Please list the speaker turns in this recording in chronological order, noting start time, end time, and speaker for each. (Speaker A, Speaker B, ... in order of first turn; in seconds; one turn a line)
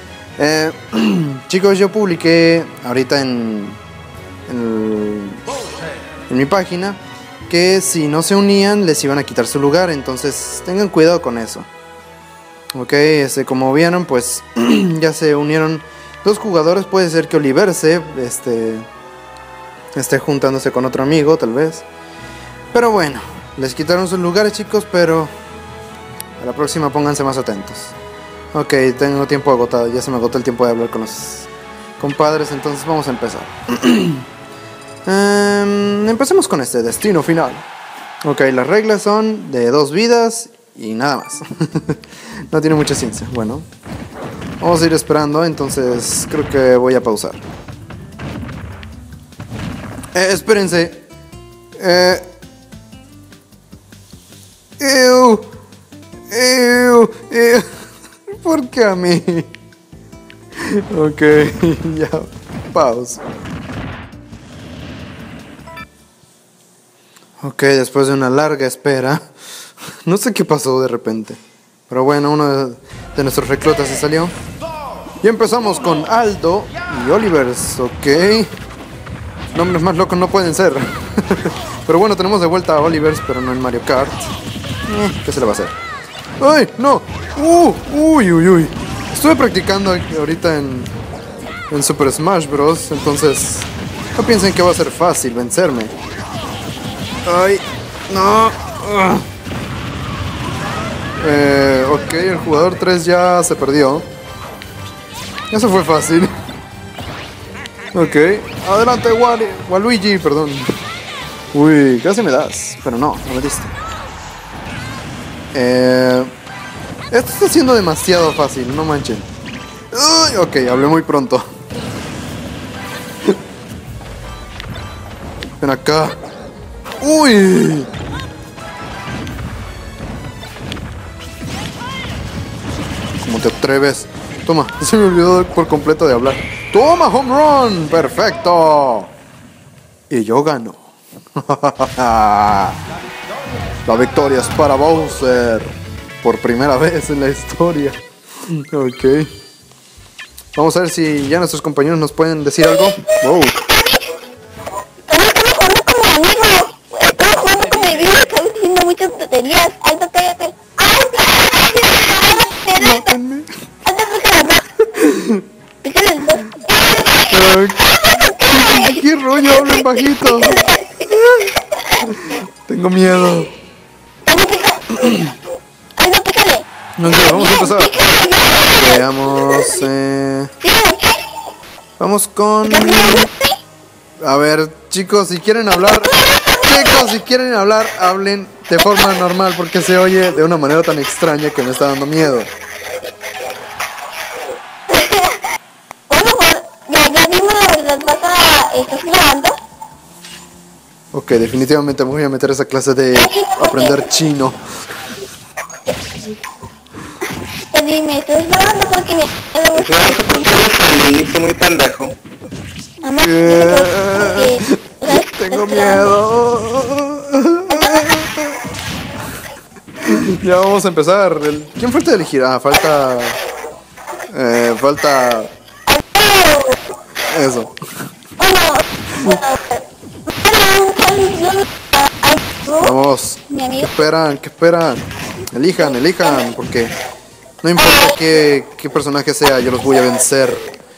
Speaker A: 0.4-3.8
Speaker A: 4.5-5.4
Speaker A: 6.3-11.7
Speaker A: 12.7-18.9
Speaker A: 19.9-21.8
Speaker A: 22.7-25.3
Speaker A: 26.4-27.9
Speaker A: 28.5-34.2
Speaker A: 35.0-37.6
Speaker A: 38.2-43.6
Speaker A: 44.6-47.4
Speaker A: 50.1-51.0
Speaker A: 51.8-52.3
Speaker A: 54.8-55.4
Speaker A: 56.3-57.7
Speaker A: 58.4-59.5
Speaker A: 60.6-63.2
Speaker A: 67.4-69.2
Speaker A: 70.0-74.3
Speaker A: 75.2-78.5
Speaker A: 79.5-84.3
Speaker A: 84.9-85.8
Speaker A: 86.4-90.9
Speaker A: 91.7-95.9
Speaker A: 97.2-99.3
Speaker A: 101.2-104.1
Speaker A: 105.5-106.3
Speaker A: 107.9-110.7
Speaker A: 111.5-113.7
Speaker A: 115.5-116.3
Speaker A: 117.1-119.3
Speaker A: 119.9-121.4
Speaker A: 125.6-126.2
Speaker A: 127.0-127.9
Speaker A: 133.2-139.1
Speaker A: 140.1-140.8
Speaker A: 141.3-142.8
Speaker A: 143.8-149.3
Speaker A: 150.5-153.6
Speaker B: 155.1-163.1
Speaker A: 162.8-163.5
Speaker B: 163.8-164.6
Speaker A: 164.8-165.4
Speaker B: 165.8-167.2
Speaker A: 167.3-173.5
Speaker B: 168.2-169.0
Speaker B: 169.6-171.0
Speaker B: 174.2-175.2
Speaker A: 174.9-175.3
Speaker B: 176.0-176.6
Speaker A: 177.0-178.0
Speaker B: 177.2-179.0
Speaker A: 178.7-180.5
Speaker B: 180.6-181.2
Speaker A: 182.0-183.3
Speaker B: 182.7-183.5
Speaker A: 184.2-192.5
Speaker B: 194.9-195.4
Speaker B: 196.1-199.6
Speaker A: 201.1-204.6
Speaker B: 203.1-204.1
Speaker B: 207.7-210.4
Speaker C: 209.7-212.1
Speaker B: 213.0-216.2
Speaker A: 213.2-218.6
Speaker B: 217.7-218.1
Speaker A: 220.0-223.4
Speaker A: 224.3-225.5
Speaker B: 225.9-226.8
Speaker A: 227.2-227.7
Speaker B: 228.4-232.9
Speaker A: 232.8-236.9
Speaker B: 233.5-233.9
Speaker A: 237.6-240.7
Speaker B: 237.8-238.4